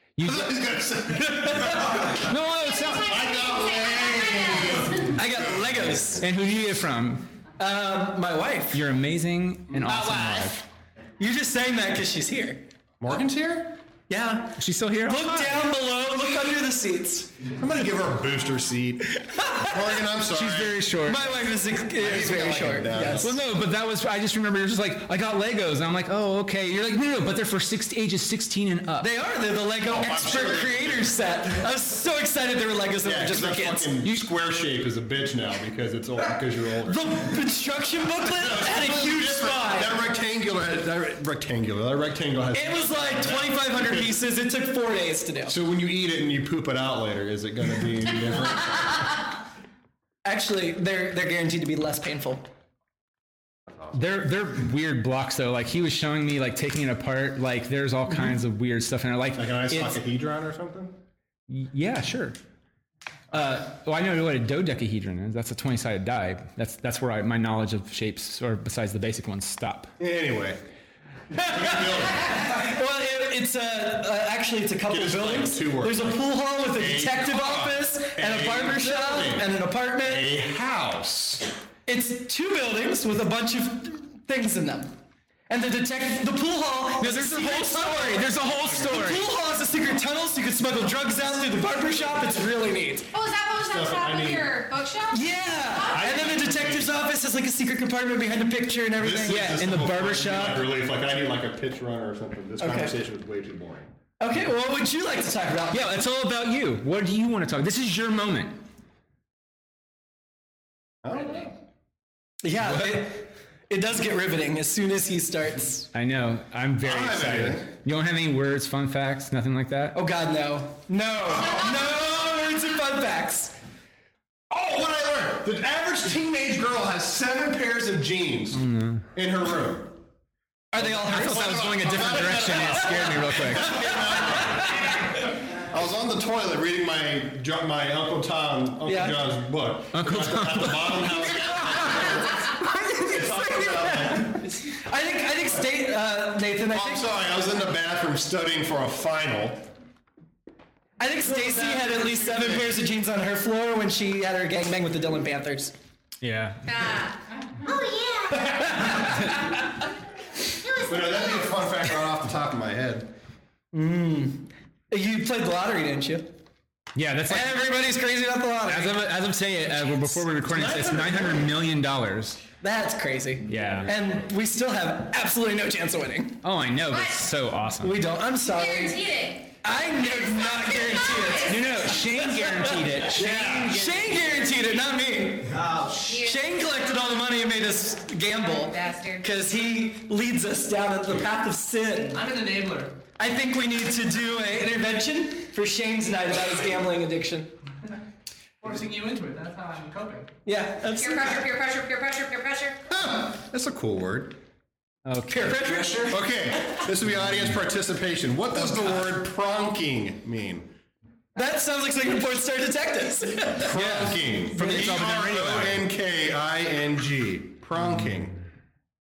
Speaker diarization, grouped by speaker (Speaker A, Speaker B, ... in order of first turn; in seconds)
Speaker A: 0.2-0.6, 2.0-3.3, 6.2-7.3, 8.7-10.6, 14.6-15.7, 20.3-21.4, 23.2-29.1, 53.9-59.5, 61.5-62.4, 63.3-69.9, 87.0-89.3, 99.3-100.7, 105.7-108.6, 112.6-113.0, 115.9-120.0, 128.5-129.1, 130.8-133.8, 139.9-141.1, 156.2-156.7, 159.0-159.3, 166.9-167.7, 168.7-172.4, 173.4-173.9, 176.4-178.0, 181.4-184.6, 205.1-205.9, 213.7-215.9
Speaker B: 0.2-6.0, 9.8-10.4, 13.0-13.8, 17.5-20.8, 21.9-23.4, 29.9-31.2, 33.0-37.3, 38.2-44.2, 45.5-49.2, 59.3-61.0, 70.0-70.6, 71.3-72.6, 74.9-81.5, 93.6-94.6, 95.9-96.9, 99.0-103.9, 111.0-111.5, 116.8-117.7, 121.3-122.0, 124.5-130.0, 130.8-144.4, 146.7-149.7, 151.2-152.7, 160.8-163.1, 183.1-183.7, 202.9-204.4, 206.1-210.7, 213.5-218.4
Speaker C: 2.6-5.0, 93.1-96.1, 156.6-159.1, 160.6-161.6, 176.9-177.2, 178.4-181.7, 185.9-187.2, 188.5-189.3, 200.9-202.8
Speaker D: 5.0-6.2, 7.6-8.8, 11.2-12.6, 14.1-17.3, 19.4-19.6, 21.0-23.4, 29.0-33.9, 36.9-40.0, 42.5-45.5, 50.2-52.5, 71.4-80.3, 81.9-84.9, 85.5-93.1, 95.1-99.6, 102.6-103.0, 104.2-106.0, 112.4-115.9, 119.9-123.5, 130.7-132.7, 133.6-134.2, 138.8-139.2, 142.5-147.1, 151.0-155.7, 163.7-166.3, 167.3-169.1, 170.4-171.4, 172.6-176.4, 177.8-179.0, 179.6-192.2, 193.2-197.5, 200.4-201.4, 205.3-206.2, 211.3-213.8, 214.5-215.2
Speaker E: 192.1-193.0, 198.6-200.3